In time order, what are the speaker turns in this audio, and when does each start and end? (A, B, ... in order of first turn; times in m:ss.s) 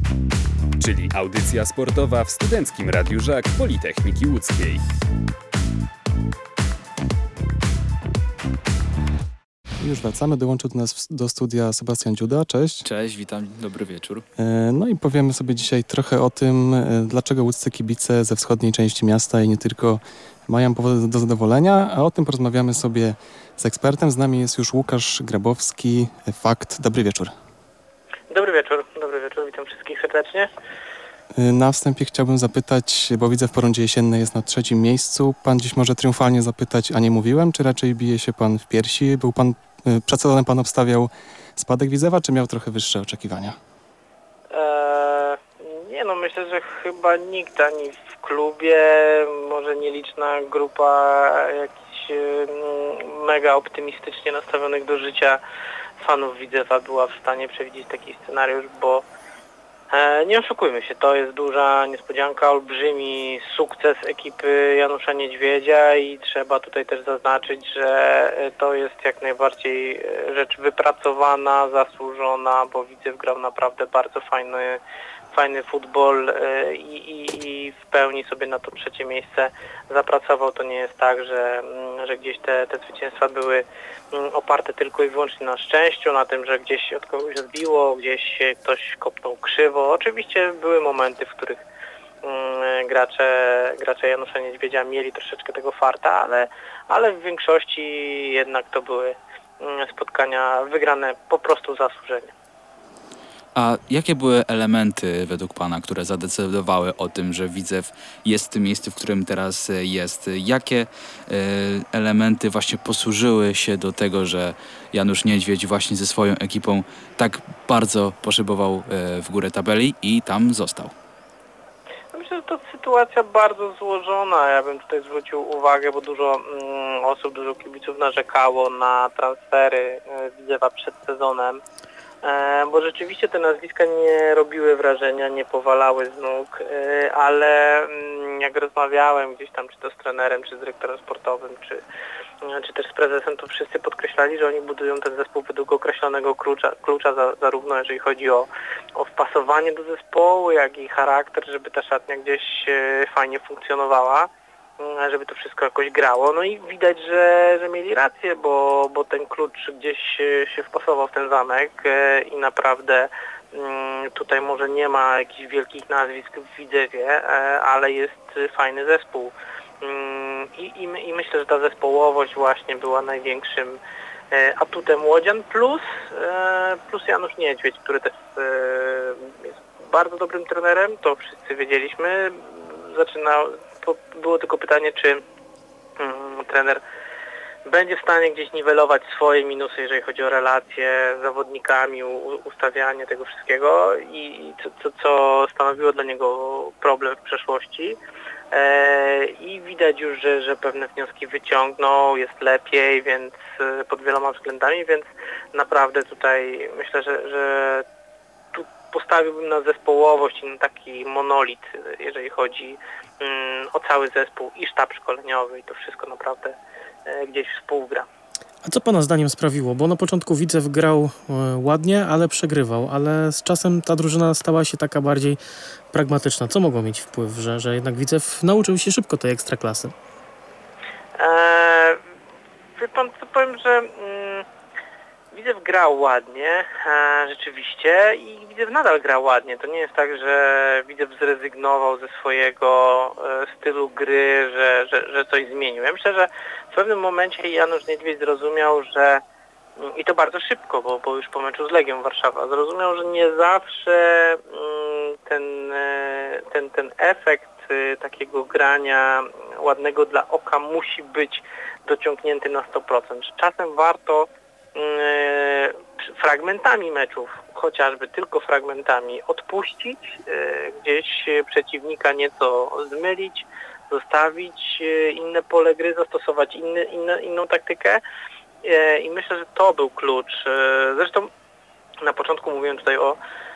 0:00.8-0:04.8 A
0:09.8-0:12.8 B
0:12.8-0:14.2 C
0:14.4-0:27.3 B
0:28.3-0:30.5 D
0:31.3-0:43.6 B
0:44.5-0:55.4 D
0:56.0-0:59.0 D
0:59.9-1:14.8 D
1:15.3-1:31.6 D
1:32.2-1:42.3 D
1:43.5-2:00.9 C
2:02.1-2:11.6 D
2:12.2-2:21.8 D
2:22.4-2:53.8 D
2:54.3-3:05.2 D
3:06.0-3:06.8 D
3:07.6-3:18.0 D
3:18.5-3:27.8 D
3:28.5-3:38.1 D
3:38.6-3:45.4 E
3:45.9-3:49.9 E
3:51.2-3:52.0 D
3:52.8-3:54.4 D
3:55.3-4:09.2 D
4:09.8-4:38.0 D
4:38.6-4:41.3 D
4:42.0-4:43.2 D